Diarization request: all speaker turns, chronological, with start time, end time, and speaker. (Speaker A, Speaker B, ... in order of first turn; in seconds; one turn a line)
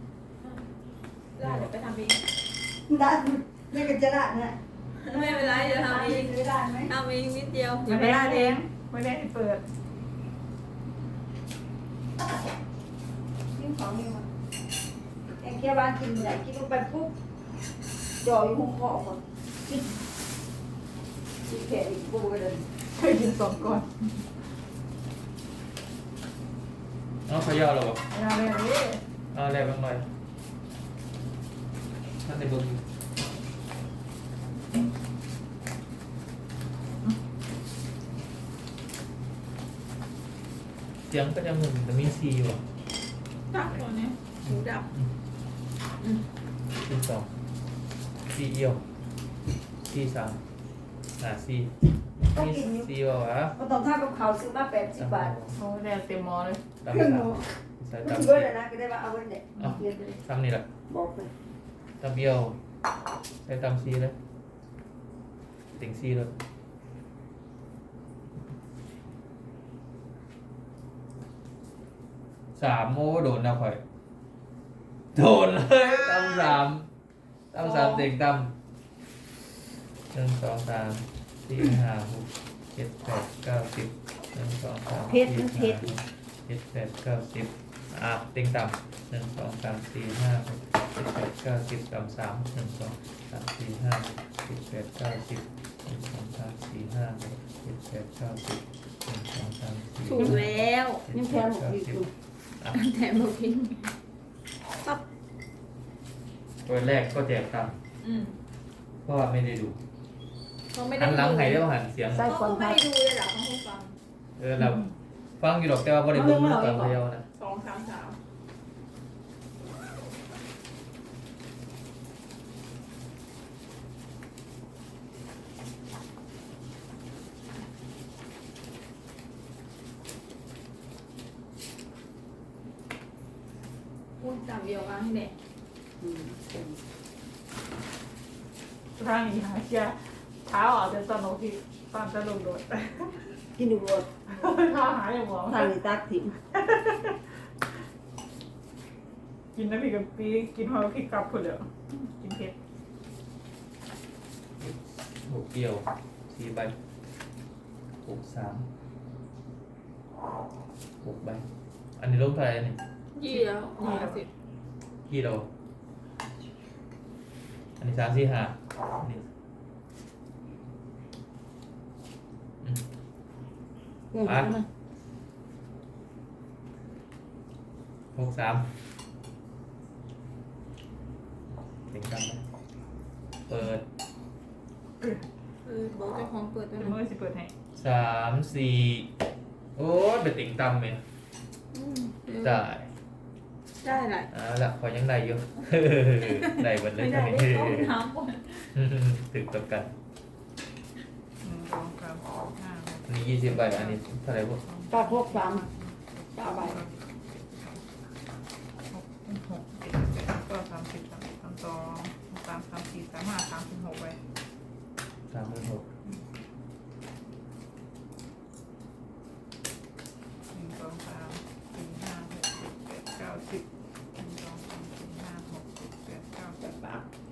Speaker A: 1.4-2.3
Speaker B: 1.4-1.7
Speaker C: 2.9-6.9
Speaker A: 5.0-6.3
Speaker A: 6.9-8.6
Speaker D: 7.8-9.6
Speaker C: 13.5-14.3
Speaker C: 15.4-17.1
Speaker C: 18.2-19.9
Speaker C: 21.4-22.7
Speaker D: 22.9-24.2
Speaker B: 27.3-28.0
Speaker D: 28.1-29.0
Speaker B: 29.3-30.1
Speaker B: 32.2-32.8
Speaker B: 41.0-42.6
Speaker A: 43.5-44.9
Speaker B: 44.5-45.1
Speaker B: 46.8-47.3
Speaker B: 48.3-48.8
Speaker B: 49.8-50.4
Speaker B: 51.2-51.7
Speaker B: 52.2-53.5
Speaker C: 52.3-52.9
Speaker C: 53.5-55.3
Speaker B: 55.0-55.5
Speaker D: 55.5-56.6
Speaker B: 56.8-58.5
Speaker C: 56.9-57.5
Speaker C: 58.0-60.2
Speaker B: 59.6-60.6
Speaker C: 60.9-61.3
Speaker B: 62.0-62.6
Speaker B: 63.5-64.1
Speaker B: 65.8-66.3
Speaker B: 72.6-73.8
Speaker B: 75.1-76.9
Speaker B: 77.5-78.5
Speaker A: 77.6-78.1
Speaker B: 80.1-100.5
Speaker C: 85.1-85.9
Speaker A: 100.1-100.8
Speaker C: 100.1-102.1
Speaker B: 101.0-102.0
Speaker A: 102.7-103.8
Speaker B: 106.6-107.7
Speaker A: 108.0-108.3
Speaker B: 109.0-109.8
Speaker A: 110.7-111.6
Speaker B: 111.0-112.3
Speaker C: 112.1-112.8
Speaker A: 112.2-114.0
Speaker B: 114.4-114.9
Speaker B: 115.4-117.2
Speaker C: 116.1-116.9
Speaker A: 117.3-118.2
Speaker A: 134.2-135.3
Speaker C: 136.0-136.8
Speaker D: 139.0-143.3
Speaker C: 143.6-144.1
Speaker D: 144.3-145.7
Speaker C: 145.5-146.3
Speaker D: 146.5-147.2
Speaker D: 149.5-152.6
Speaker B: 154.6-156.7
Speaker B: 158.0-158.7
Speaker B: 161.0-161.4
Speaker B: 162.0-162.8
Speaker A: 163.1-164.3
Speaker D: 163.3-164.2
Speaker B: 165.1-165.5
Speaker B: 167.8-169.2
Speaker C: 174.1-174.6
Speaker B: 174.2-174.5
Speaker B: 178.1-178.7
Speaker B: 181.9-182.4
Speaker B: 183.5-183.8
Speaker A: 185.6-186.9
Speaker D: 186.8-187.5
Speaker B: 187.8-189.1
Speaker B: 189.8-191.0
Speaker A: 191.7-192.6
Speaker B: 192.4-192.8
Speaker A: 193.8-194.3
Speaker B: 194.3-197.9
Speaker A: 196.2-198.7
Speaker B: 198.7-199.9
Speaker D: 201.4-204.0
Speaker B: 203.1-204.6
Speaker D: 204.6-207.8
Speaker C: 204.9-205.6
Speaker C: 206.3-206.8
Speaker D: 208.9-214.2
Speaker B: 215.3-215.8
Speaker D: 220.5-226.6
Speaker C: 226.6-227.0